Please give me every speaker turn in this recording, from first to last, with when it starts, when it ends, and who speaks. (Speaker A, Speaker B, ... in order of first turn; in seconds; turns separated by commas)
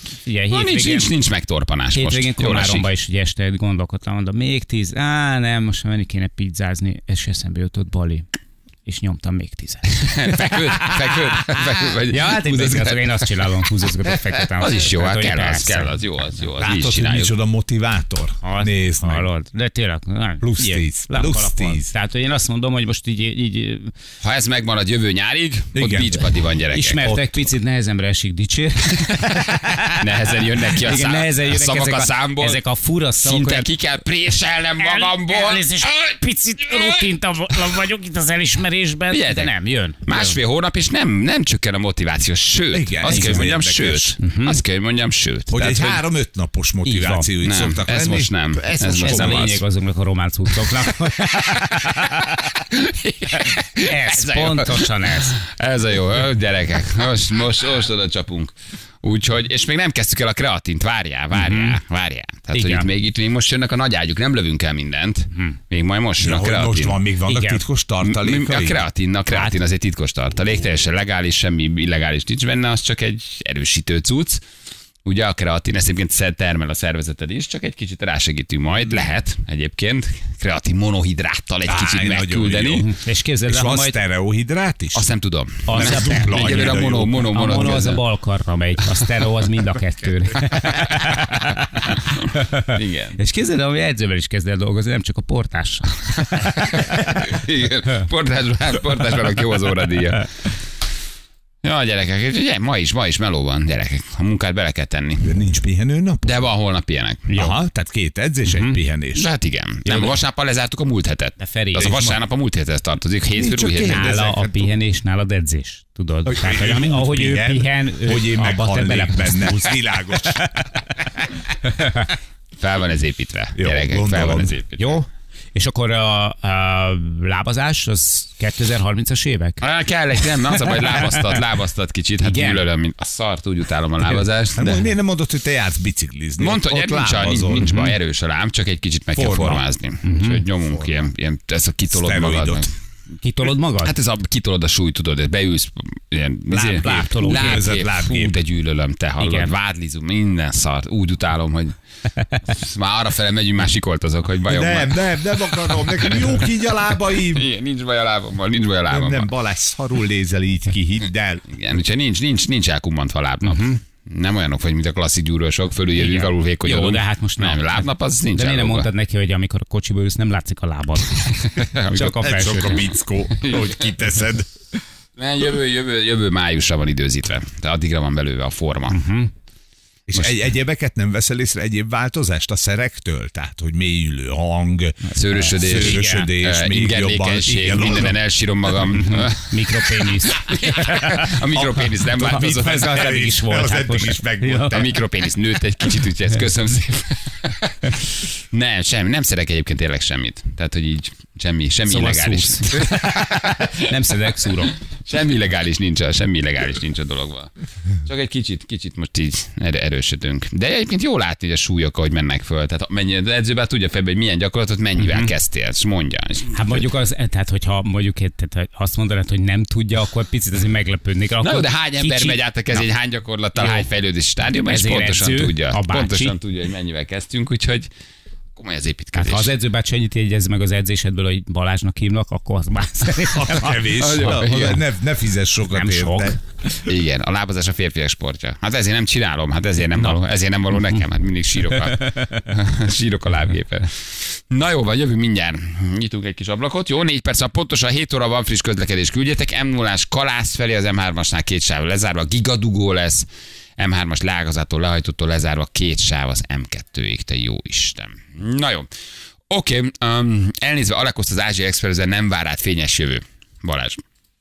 Speaker A: 0.3-1.1, Speaker B: 0.5-2.9, Speaker A: 1.9-8.3, Speaker A: 8.8-10.9, Speaker B: 9.9-13.3, Speaker A: 12.1-15.9, Speaker B: 14.6-17.3, Speaker C: 16.6-19.3, Speaker A: 18.4-23.9, Speaker C: 20.4-21.9, Speaker B: 24.2-27.0, Speaker C: 25.8-26.3, Speaker A: 26.7-30.1, Speaker C: 27.0-27.4, Speaker B: 29.1-32.6, Speaker A: 30.8-33.7, Speaker B: 33.2-36.2, Speaker A: 34.8-40.4, Speaker B: 36.7-37.1, Speaker B: 39.1-39.5, Speaker B: 40.0-46.0, Speaker C: 42.7-44.2, Speaker A: 43.1-43.5, Speaker A: 44.2-44.6, Speaker C: 45.5-49.6, Speaker A: 46.9-47.3, Speaker B: 47.4-49.6, Speaker A: 49.0-51.6, Speaker B: 51.3-67.0, Speaker A: 53.5-55.4, Speaker A: 61.3-61.8, Speaker A: 62.5-62.9, Speaker C: 66.2-68.8, Speaker A: 67.3-67.6, Speaker B: 68.0-74.4, Speaker B: 75.0-82.9, Speaker C: 81.7-82.9, Speaker A: 82.8-84.0, Speaker C: 83.5-85.0, Speaker B: 84.9-88.0, Speaker A: 85.7-97.2, Speaker C: 85.7-87.2, Speaker B: 92.0-93.2, Speaker B: 96.3-100.3, Speaker B: 101.6-105.4, Speaker C: 105.2-106.4, Speaker B: 106.2-107.3, Speaker A: 107.3-107.6, Speaker C: 107.3-109.3, Speaker A: 108.5-108.8, Speaker B: 109.2-114.0, Speaker A: 111.4-111.9, Speaker C: 111.8-112.2, Speaker C: 113.4-114.7, Speaker A: 113.8-119.8, Speaker C: 116.3-121.3, Speaker B: 122.6-125.0, Speaker C: 123.6-124.5, Speaker A: 124.8-129.6, Speaker B: 129.6-134.9, Speaker A: 130.4-131.2, Speaker A: 132.2-132.6, Speaker C: 134.6-137.7, Speaker B: 136.4-142.7, Speaker A: 137.6-137.9, Speaker C: 139.2-139.7, Speaker A: 140.0-140.4, Speaker C: 140.7-141.1, Speaker C: 141.9-142.7, Speaker A: 143.2-143.9, Speaker B: 143.8-151.8, Speaker C: 146.5-148.4, Speaker A: 146.7-147.7, Speaker A: 149.2-149.5, Speaker B: 152.4-156.5, Speaker C: 154.5-157.5, Speaker B: 157.2-159.3, Speaker C: 158.9-161.5, Speaker B: 161.5-168.9, Speaker A: 163.4-163.8, Speaker A: 166.0-172.8, Speaker B: 171.6-172.7, Speaker C: 172.0-174.5, Speaker B: 173.4-173.9, Speaker B: 175.2-179.0, Speaker A: 178.9-179.3, Speaker C: 180.1-188.2, Speaker B: 180.1-180.4, Speaker A: 185.1-186.3, Speaker B: 185.2-192.9, Speaker A: 188.9-191.3, Speaker C: 191.5-195.0, Speaker A: 192.2-194.7, Speaker B: 194.7-203.9, Speaker A: 201.9-204.8, Speaker B: 205.1-207.5, Speaker B: 208.1-216.7, Speaker A: 215.0-215.3, Speaker A: 216.5-222.8, Speaker B: 221.4-227.9, Speaker A: 223.6-223.9, Speaker A: 224.7-226.4, Speaker B: 228.6-229.5, Speaker A: 229.2-233.9, Speaker C: 233.3-236.4, Speaker B: 234.0-234.8, Speaker A: 235.7-236.4, Speaker B: 236.8-253.3, Speaker B: 253.8-258.9, Speaker B: 259.5-264.0